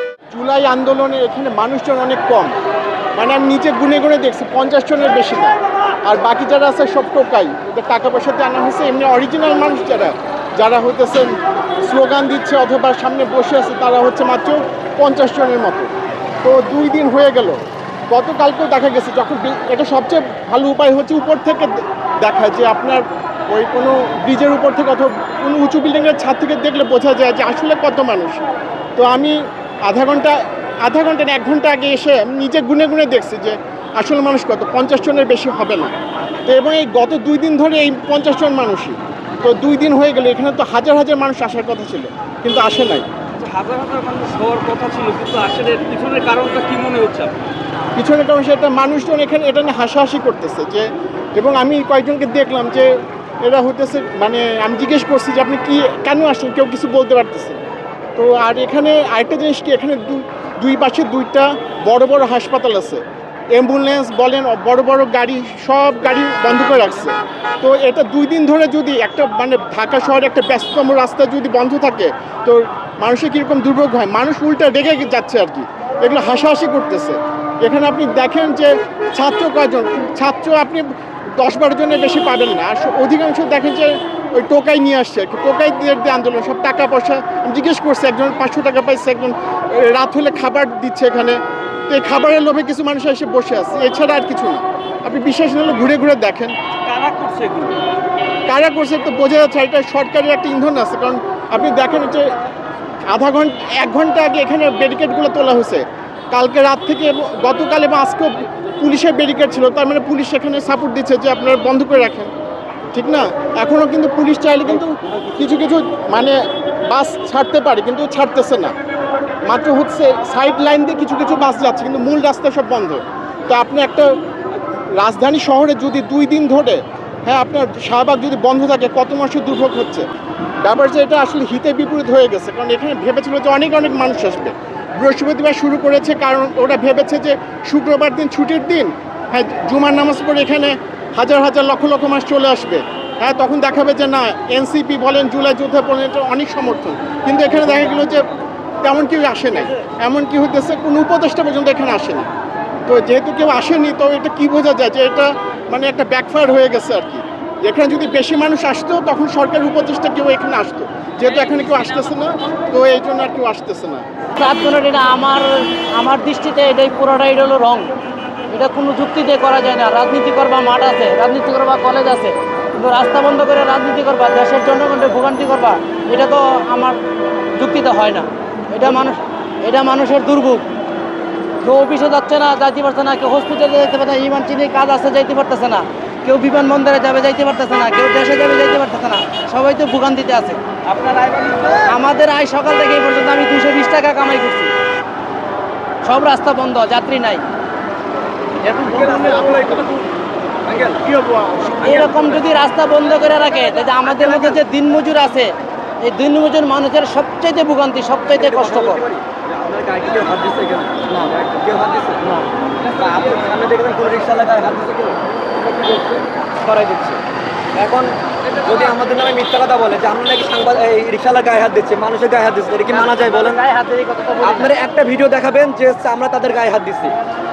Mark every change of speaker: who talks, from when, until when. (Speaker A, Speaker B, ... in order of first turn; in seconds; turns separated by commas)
Speaker A: 0.3-2.5, Speaker A: 3.1-15.9, Speaker A: 16.4-35.9, Speaker A: 36.4-43.1, Speaker B: 43.4-44.2, Speaker C: 43.5-47.3, Speaker B: 44.8-45.7, Speaker B: 46.6-47.1, Speaker A: 48.0-57.6, Speaker A: 58.1-96.5, Speaker B: 96.9-97.5, Speaker C: 96.9-97.8, Speaker A: 98.5-102.3, Speaker A: 103.0-112.3, Speaker A: 112.9-118.7, Speaker A: 119.4-124.2, Speaker A: 125.0-130.1, Speaker A: 130.6-152.3, Speaker A: 152.8-164.1, Speaker D: 164.4-167.9, Speaker D: 168.5-177.0, Speaker D: 177.5-180.7, Speaker D: 181.6-190.6, Speaker B: 190.9-191.9, Speaker D: 191.9-194.7, Speaker D: 196.0-197.4, Speaker D: 198.6-199.9, Speaker B: 198.8-200.1, Speaker B: 200.6-201.2, Speaker A: 201.3-201.6, Speaker D: 201.6-209.0, Speaker B: 208.3-212.3, Speaker B: 212.8-217.2, Speaker B: 217.7-223.6, Speaker D: 222.9-224.7, Speaker B: 224.4-227.2